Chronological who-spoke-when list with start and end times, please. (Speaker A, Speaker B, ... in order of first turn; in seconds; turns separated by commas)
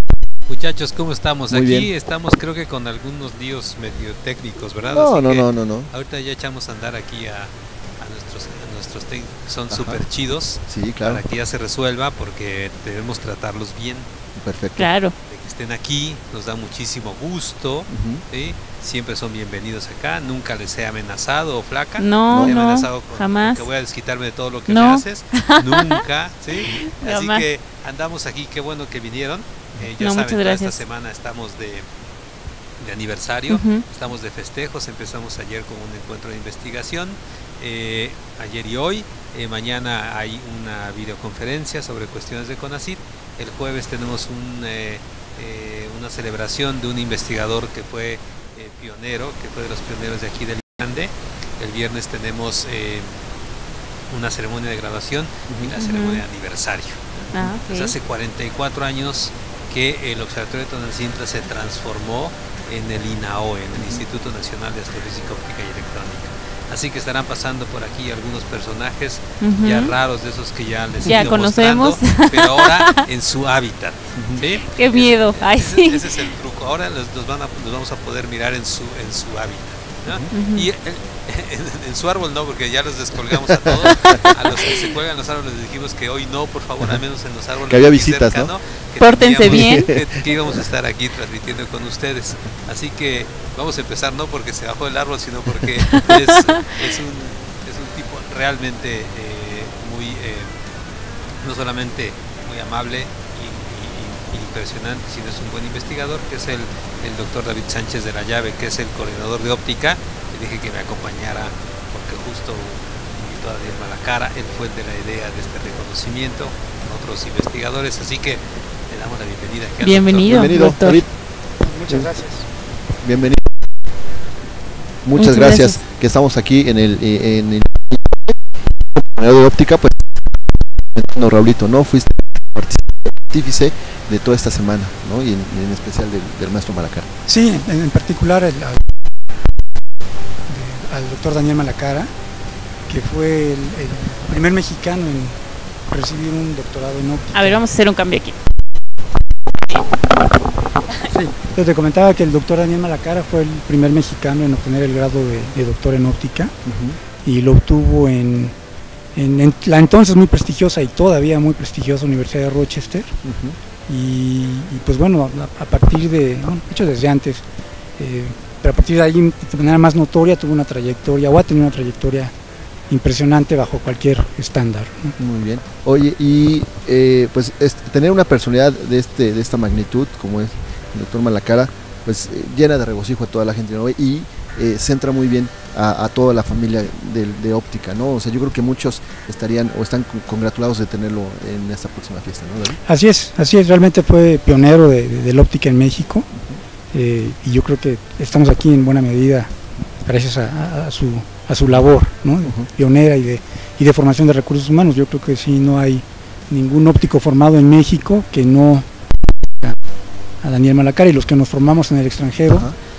Speaker A: 0.5-14.1, Speaker B: 1.5-1.9, Speaker B: 4.9-5.9, Speaker B: 9.7-10.0, Speaker B: 10.7-11.2, Speaker B: 14.4-14.9, Speaker C: 14.8-15.1, Speaker A: 15.3-31.9, Speaker B: 17.9-18.2, Speaker C: 22.0-23.7, Speaker B: 22.3-22.6, Speaker C: 24.7-27.5, Speaker C: 30.0-30.9, Speaker A: 32.8-53.1, Speaker C: 33.5-33.8, Speaker A: 54.1-100.6, Speaker C: 55.8-56.2, Speaker C: 57.3-58.0, Speaker C: 69.4-70.0, Speaker C: 71.0-73.0, Speaker B: 74.2-74.4, Speaker C: 74.8-76.4, Speaker C: 80.3-80.7, Speaker B: 83.3-84.2, Speaker B: 87.7-88.5, Speaker C: 89.0-89.9, Speaker B: 89.5-90.1, Speaker C: 96.0-96.5, Speaker A: 101.4-120.7, Speaker C: 119.8-121.0, Speaker B: 120.3-121.1, Speaker D: 121.6-122.5, Speaker B: 123.0-123.5, Speaker B: 125.0-128.3, Speaker C: 125.2-125.8, Speaker B: 128.9-130.2, Speaker B: 130.9-137.1, Speaker D: 137.3-138.8, Speaker D: 140.5-142.1, Speaker D: 142.9-147.6, Speaker C: 147.3-148.4, Speaker D: 151.1-156.5, Speaker B: 156.7-156.9, Speaker D: 157.2-158.6, Speaker D: 159.2-163.2, Speaker B: 163.3-163.6, Speaker D: 163.9-167.4, Speaker D: 168.0-172.3, Speaker D: 172.9-175.2, Speaker B: 175.2-192.8, Speaker D: 192.9-196.3, Speaker D: 196.9-208.9, Speaker D: 210.4-212.7, Speaker B: 212.5-212.8